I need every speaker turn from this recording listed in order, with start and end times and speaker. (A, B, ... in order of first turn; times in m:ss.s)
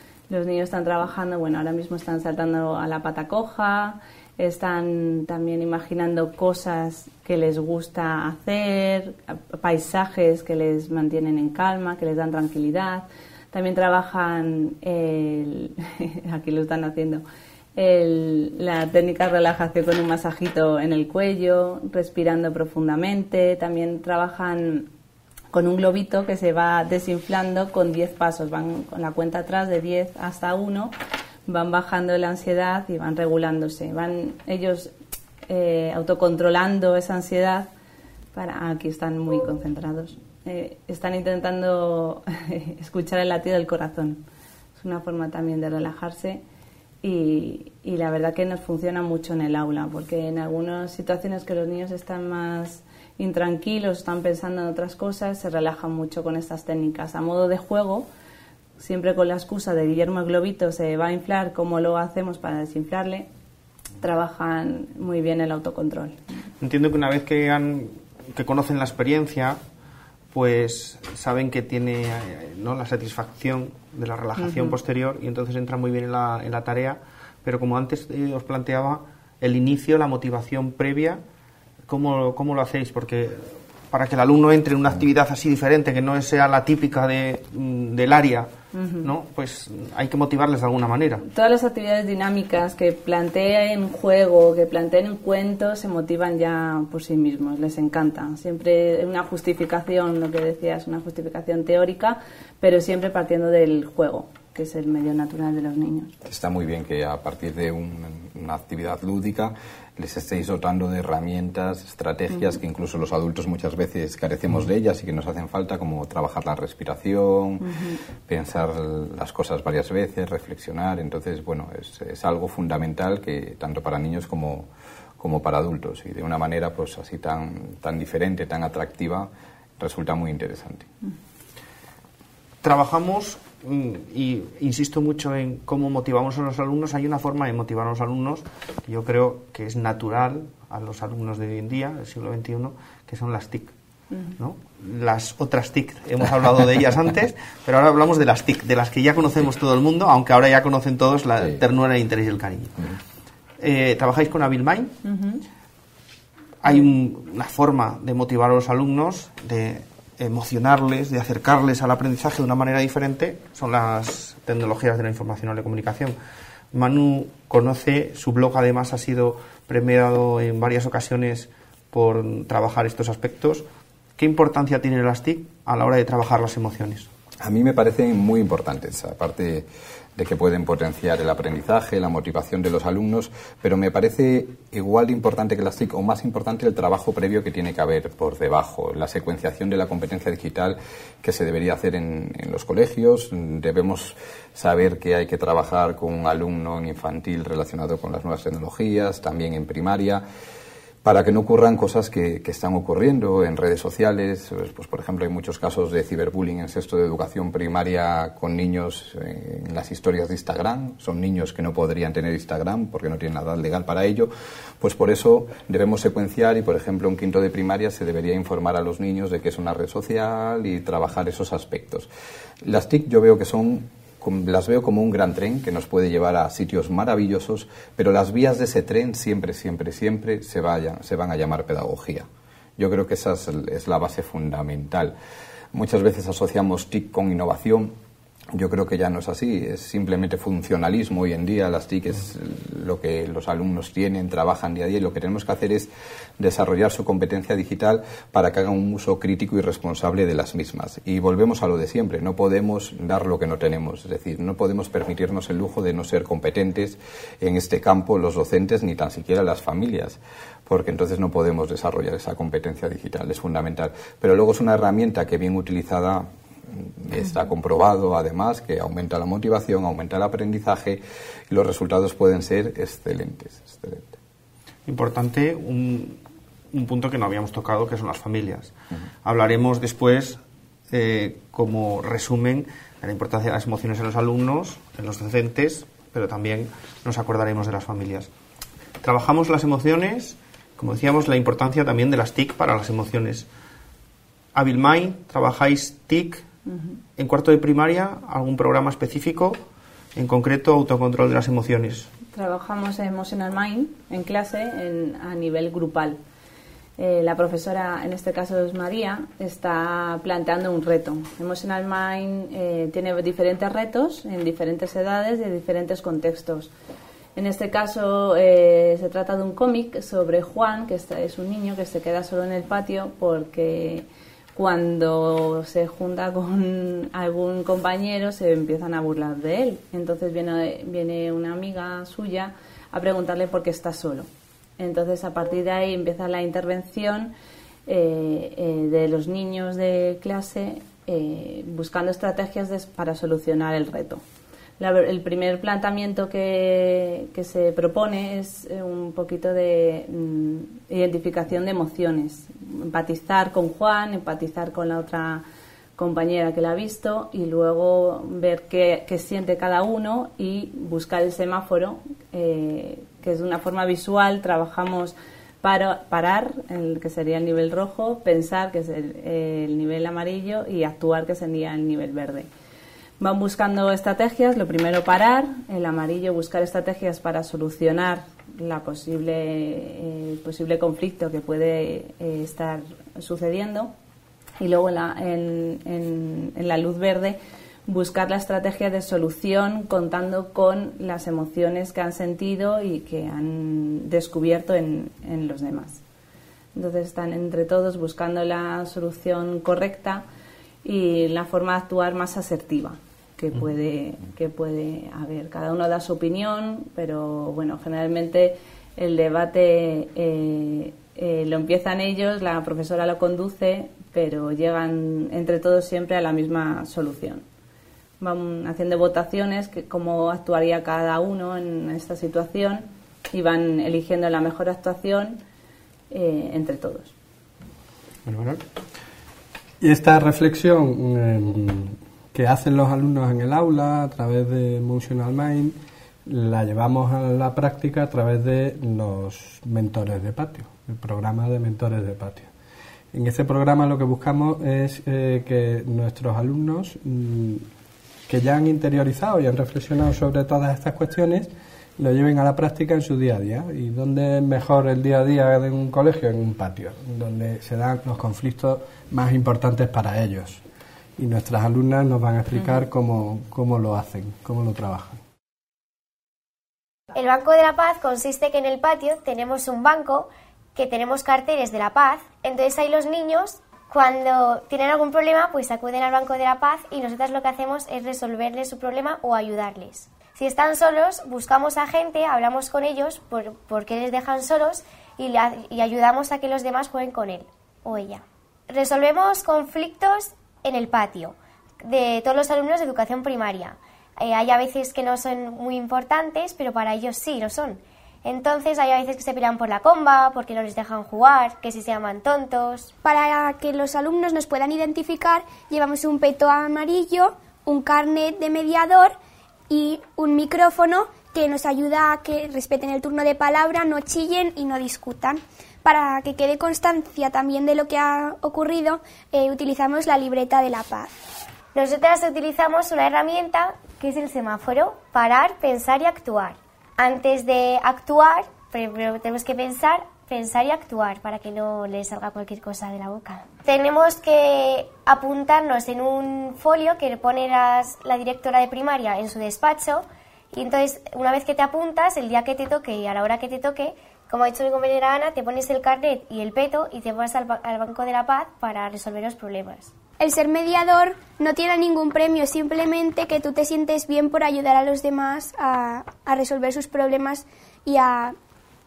0:00.3-0:17.2 A
0:17.8-0:24.9 A
0:25.5-0:30.9 A
0:31.5-0:34.9 A
0:35.5-0:37.7 A
0:38.3-0:44.2 A
0:44.8-0:46.4 A
0:47.0-0:58.1 A
0:58.8-1:03.3 A
1:04.0-1:06.2 A
1:06.6-1:09.6 B
1:10.3-1:21.2 B
1:14.4-1:14.8 A
1:21.9-1:28.5 B
1:28.7-1:29.1 A
1:29.0-1:31.2 B
1:31.3-1:46.1 A
1:46.2-1:57.7 C
1:57.6-1:58.0 A
1:58.2-2:10.9 C
2:12.6-2:23.7 B
2:24.4-2:33.0 B
2:33.6-2:35.0 B
2:35.0-2:35.4 A
2:36.6-2:46.2 B
2:46.7-2:53.6 B
2:54.2-2:57.1 B
2:57.4-3:20.2 C
3:21.0-3:42.1 C
3:42.6-3:52.2 C
3:52.8-3:55.1 C
3:55.7-3:57.9 C
3:58.5-4:34.2 C
4:34.9-4:36.2 B
4:36.7-4:38.7 B
4:39.2-4:48.3 B
4:49.0-4:53.5 B
4:54.5-4:56.4 B
4:57.2-4:59.6 B
5:00.2-5:02.1 B
5:02.3-5:06.2 A
5:07.0-5:16.7 A
5:17.4-5:34.3 A
5:34.8-5:37.3 A
5:37.8-5:44.2 A
5:44.8-5:55.4 A
5:56.0-6:12.5 A
6:13.2-6:23.9 A
6:24.6-6:36.0 A
6:36.7-6:40.2 A
6:40.8-6:57.4 A
6:58.2-7:05.4 A
7:06.1-7:07.1 A
7:08.2-7:08.6 B
7:09.8-7:22.5 D
7:23.1-7:27.6 D
7:28.3-7:40.6 D
7:41.2-7:45.2 D
7:47.1-8:23.0 E
8:23.0-8:29.1 F
8:29.7-8:41.1 F
8:41.7-9:09.9 E
9:10.2-9:18.3 F